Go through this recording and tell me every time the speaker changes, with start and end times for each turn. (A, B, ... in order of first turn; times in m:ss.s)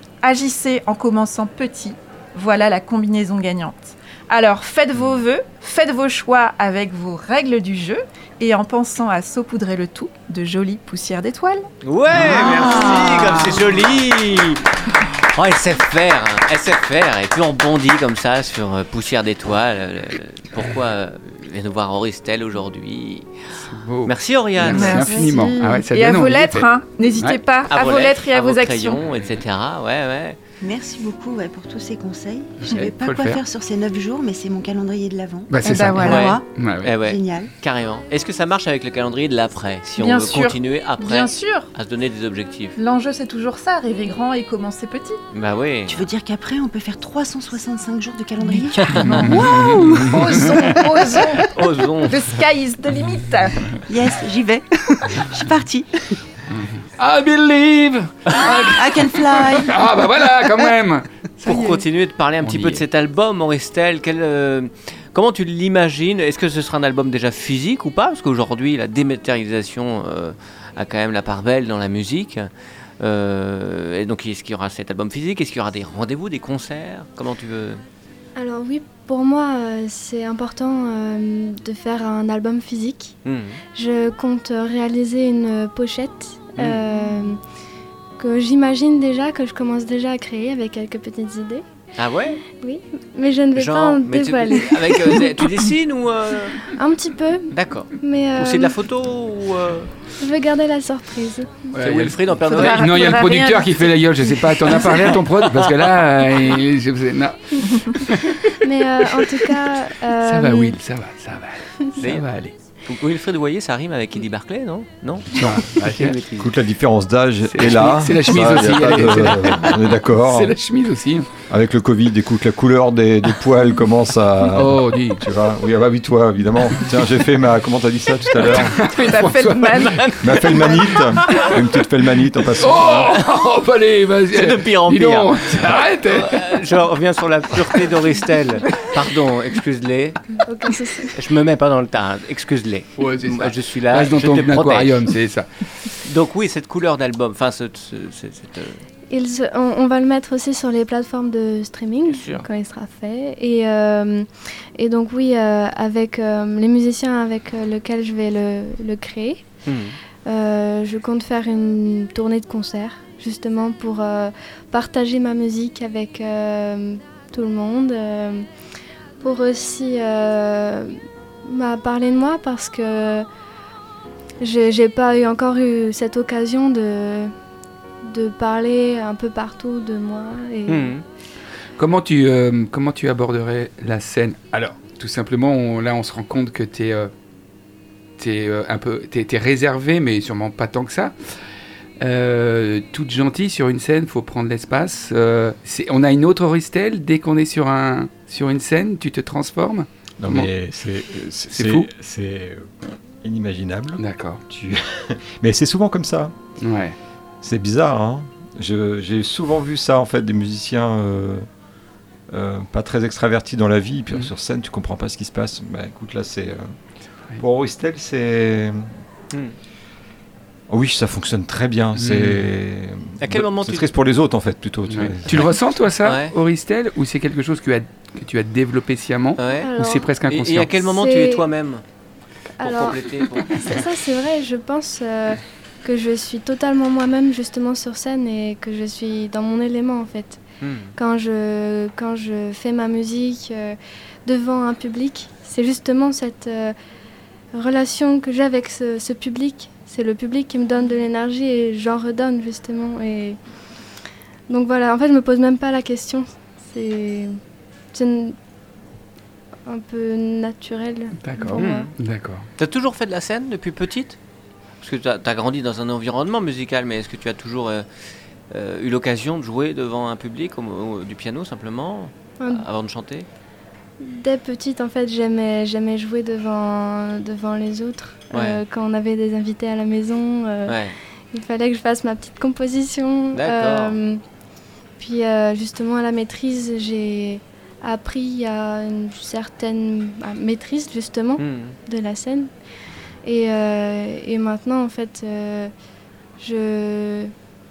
0:00.2-0:11.6 A
0:11.8-0:23.3 B
0:12.2-0:12.4 C
0:12.2-0:13.4 A
0:23.6-0:27.4 C
0:24.0-0:25.1 B
0:24.7-0:29.0 A
0:27.7-0:30.4 B
0:30.6-0:36.4 D
0:32.6-0:33.4 C
0:35.5-0:37.0 C
0:35.6-0:36.4 A
0:36.0-0:42.8 B
0:37.0-0:37.5 D
0:40.0-0:41.7 A
0:42.8-0:45.2 A
0:45.3-0:46.1 B
0:45.9-0:49.1 D
0:48.8-0:49.1 B
0:48.9-0:53.8 A
0:49.1-0:50.8 C
0:51.4-0:52.3 B
0:53.9-0:55.9 D
0:56.5-1:01.8 C
0:58.5-0:59.8 D
1:01.4-1:12.5 B
1:02.4-1:02.8 C
1:13.0-1:17.8 B
1:18.4-1:23.1 E
1:23.2-1:23.6 B
1:23.7-1:27.4 E
1:28.2-1:31.6 E
1:32.0-1:32.4 B
1:32.5-1:35.4 E
1:33.5-1:36.7 B
1:36.7-1:38.7 E
1:37.5-1:39.9 B
1:40.2-1:41.7 E
1:41.7-1:48.5 C
1:41.8-1:43.1 B
1:42.4-1:43.9 A
1:44.7-1:45.9 B
1:47.7-1:48.0 A
1:48.5-1:50.8 E
1:50.2-1:52.5 C
1:52.0-1:52.3 B
1:52.8-1:56.5 B
1:55.3-1:56.2 C
1:55.8-2:00.6 F
1:57.5-2:01.3 C
2:01.5-2:08.9 F
2:04.5-2:05.2 C
2:08.4-2:10.8 C
2:08.7-2:10.7 A
2:10.2-2:13.2 F
2:12.6-2:16.6 C
2:14.3-2:20.4 B
2:20.4-2:21.2 E
2:21.1-2:25.1 B
2:23.0-2:25.5 C
2:26.0-2:28.8 B
2:29.1-2:39.4 E
2:32.1-2:32.4 B
2:39.6-2:40.0 B
2:40.2-2:48.4 E
2:49.2-2:53.3 E
2:54.4-2:57.3 E
2:58.0-3:00.9 E
3:00.7-3:01.0 B
3:01.8-3:07.1 C
3:08.2-3:11.1 C
3:12.0-3:20.5 C
3:20.2-3:26.3 F
3:21.5-3:21.9 C
3:24.0-3:24.4 C
3:26.6-3:27.0 C
3:27.4-3:31.4 F
3:32.3-3:36.7 F
3:37.4-3:38.9 F
3:40.7-3:45.5 F
3:42.0-3:42.5 C
3:43.2-3:43.9 B
3:44.9-3:50.7 C
3:46.0-3:46.3 B
3:49.4-3:49.7 B
3:49.6-3:50.1 E
3:50.2-3:51.8 B
3:50.8-3:51.4 E
3:52.6-4:00.4 E
3:52.6-3:53.8 B
4:00.6-4:00.9 B
4:01.0-4:06.7 E
4:07.5-4:13.4 E
4:14.5-4:17.4 E
4:17.9-4:18.4 E
4:19.6-4:21.9 E
4:21.2-4:22.5 C
4:21.6-4:21.9 B
4:22.6-4:24.2 B
4:24.8-4:27.8 B
4:28.5-4:33.2 B
4:32.4-4:32.6 E
4:34.0-4:40.8 E
4:38.3-4:38.6 B
4:40.7-4:41.0 B
4:41.3-4:44.2 E
4:43.3-4:44.0 B
4:45.0-4:52.5 E
4:51.4-4:51.8 B
4:53.2-4:55.7 E
4:56.4-4:57.3 E